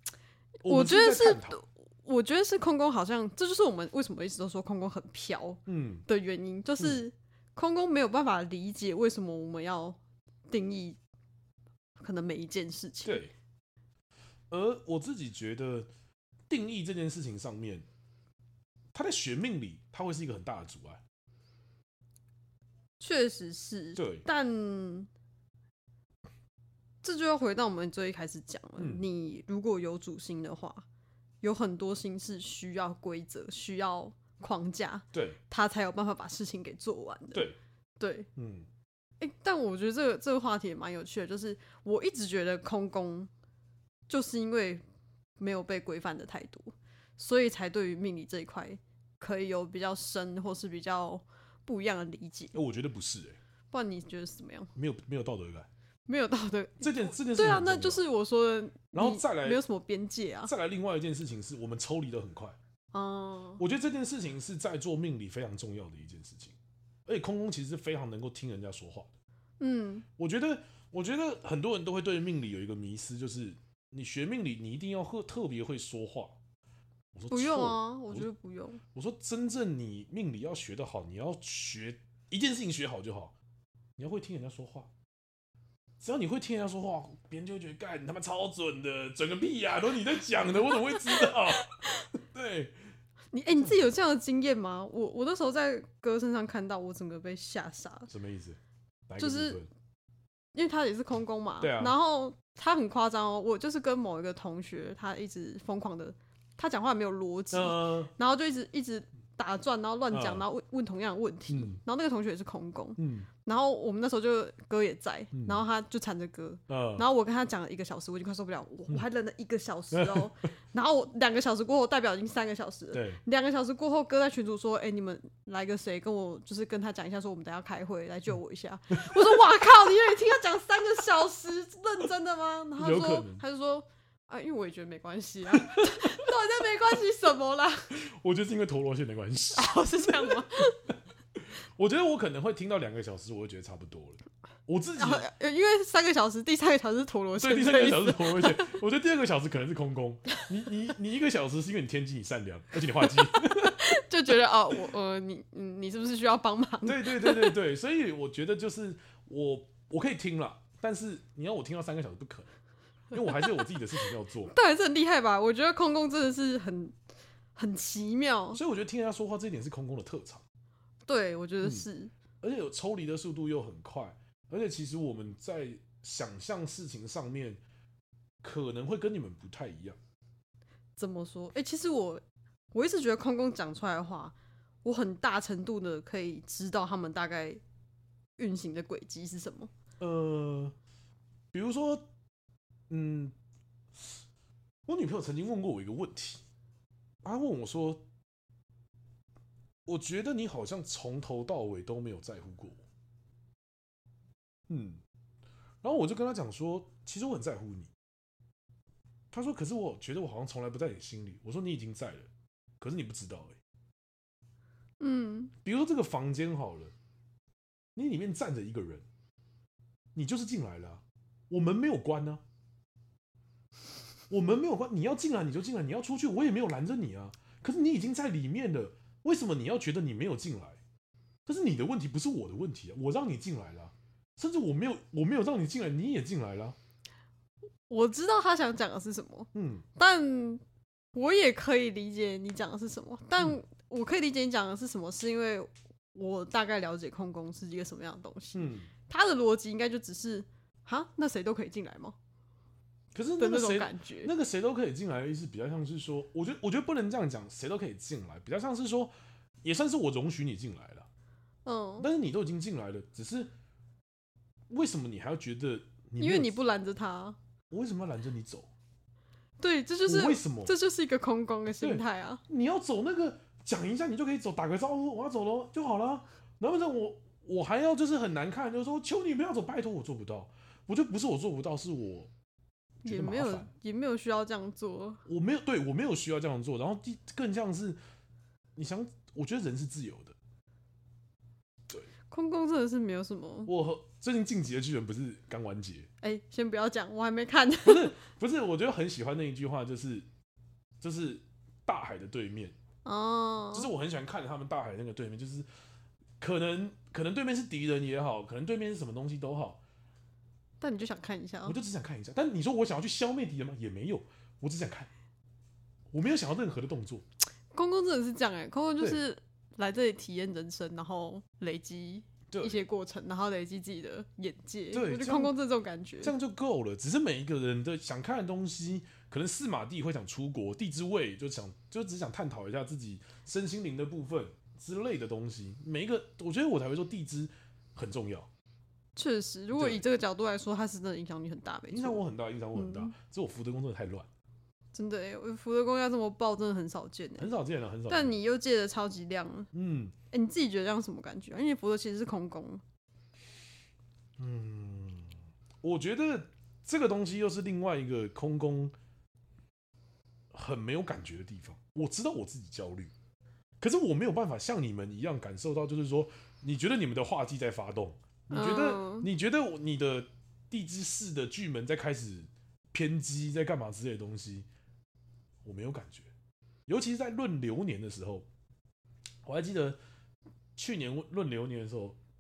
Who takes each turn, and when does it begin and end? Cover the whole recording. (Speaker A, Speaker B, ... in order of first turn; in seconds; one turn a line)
Speaker A: 0.6-1.6
Speaker B: 0.7-11.0
Speaker A: 5.7-6.0
Speaker B: 12.0-13.2
Speaker A: 13.1-13.3
Speaker A: 14.5-15.9
Speaker A: 16.5-17.9
Speaker A: 18.9-21.0
Speaker B: 23.0-25.1
Speaker A: 24.0-24.3
Speaker B: 27.0-30.9
Speaker A: 28.8-29.1
Speaker B: 31.4-37.4
Speaker A: 35.1-35.4
Speaker B: 38.0-38.3
Speaker A: 38.4-38.7
Speaker B: 39.2-43.3
Speaker B: 44.1-44.8
Speaker B: 45.4-52.5
Speaker A: 52.5-53.4
Speaker B: 53.7-54.7
Speaker A: 54.8-55.7
Speaker B: 56.1-60.5
Speaker A: 56.8-58.0
Speaker A: 58.9-59.6
Speaker A: 60.5-62.6
Speaker B: 62.9-63.6
Speaker A: 63.6-66.5
Speaker A: 67.1-69.1
Speaker B: 69.6-70.1
Speaker A: 70.2-76.4
Speaker A: 77.1-78.3
Speaker B: 77.3-78.8
Speaker A: 78.9-83.3
Speaker A: 84.0-84.9
Speaker A: 86.0-92.8
Speaker B: 90.7-92.0
Speaker B: 93.3-98.1
Speaker A: 98.1-99.7
Speaker B: 99.2-99.6
Speaker B: 100.5-137.9
Speaker A: 101.6-101.9
Speaker A: 107.5-108.1
Speaker A: 110.1-110.4
Speaker A: 111.5-111.8
Speaker A: 113.0-113.3
Speaker A: 115.3-115.6
Speaker A: 116.7-117.1
Speaker A: 119.9-120.3
Speaker A: 122.9-123.2
Speaker A: 128.9-129.3
Speaker A: 132.8-133.4
Speaker A: 135.5-136.3
Speaker A: 137.9-145.3
Speaker B: 139.5-140.8
Speaker B: 145.0-148.7
Speaker A: 147.4-153.8
Speaker B: 153.0-157.6
Speaker A: 156.8-162.5
Speaker A: 163.1-164.5
Speaker B: 163.3-163.6
Speaker B: 164.5-167.0
Speaker B: 167.6-168.6
Speaker A: 168.5-170.4
Speaker B: 171.1-172.1
Speaker A: 172.4-177.6
Speaker A: 178.4-180.0
Speaker B: 181.0-187.6
Speaker B: 188.4-189.7
Speaker A: 190.0-190.8
Speaker A: 191.5-192.1
Speaker A: 192.9-193.3
Speaker A: 194.9-196.4
Speaker A: 197.2-198.1
Speaker A: 199.9-202.8
Speaker A: 204.7-205.0
Speaker A: 205.8-207.9
Speaker A: 209.3-212.3
Speaker A: 212.8-213.6
Speaker B: 215.0-215.5
Speaker A: 215.6-216.9
Speaker A: 218.0-219.1
Speaker A: 220.2-222.4
Speaker A: 224.3-230.8
Speaker A: 231.5-236.8
Speaker B: 237.9-240.6
Speaker A: 239.5-239.9
Speaker B: 241.1-252.2
Speaker A: 248.5-248.9
Speaker A: 253.1-259.1
Speaker B: 253.4-254.3
Speaker A: 259.6-261.1
Speaker B: 261.6-262.1
Speaker A: 262.0-263.5
Speaker A: 264.7-266.6
Speaker B: 266.2-267.4
Speaker A: 267.7-268.7
Speaker B: 269.6-272.4
Speaker A: 270.1-270.7
Speaker A: 271.8-282.3
Speaker B: 283.0-285.2
Speaker A: 283.1-283.7
Speaker A: 285.3-288.0
Speaker A: 288.8-290.4
Speaker B: 292.3-293.7
Speaker A: 293.7-296.1
Speaker B: 296.2-298.2
Speaker A: 297.8-300.3
Speaker A: 301.0-302.8
Speaker B: 303.1-303.9
Speaker A: 303.7-305.7
Speaker A: 306.4-309.8
Speaker B: 310.8-311.8
Speaker A: 311.6-315.1
Speaker A: 316.1-317.2
Speaker B: 317.7-326.3
Speaker A: 322.5-322.8
Speaker A: 324.9-325.5
Speaker A: 326.2-338.5
Speaker B: 339.2-342.2
Speaker A: 339.7-340.0
Speaker A: 341.9-344.3
Speaker B: 342.7-343.1
Speaker B: 344.9-347.5
Speaker A: 347.4-348.4
Speaker B: 348.1-349.7
Speaker A: 349.7-350.1
Speaker B: 350.3-352.8
Speaker A: 354.4-358.9
Speaker A: 360.5-363.1
Speaker A: 363.8-374.7
Speaker B: 368.5-369.3
Speaker A: 375.6-376.3
Speaker A: 376.9-378.5
Speaker A: 379.4-380.0
Speaker A: 380.8-382.2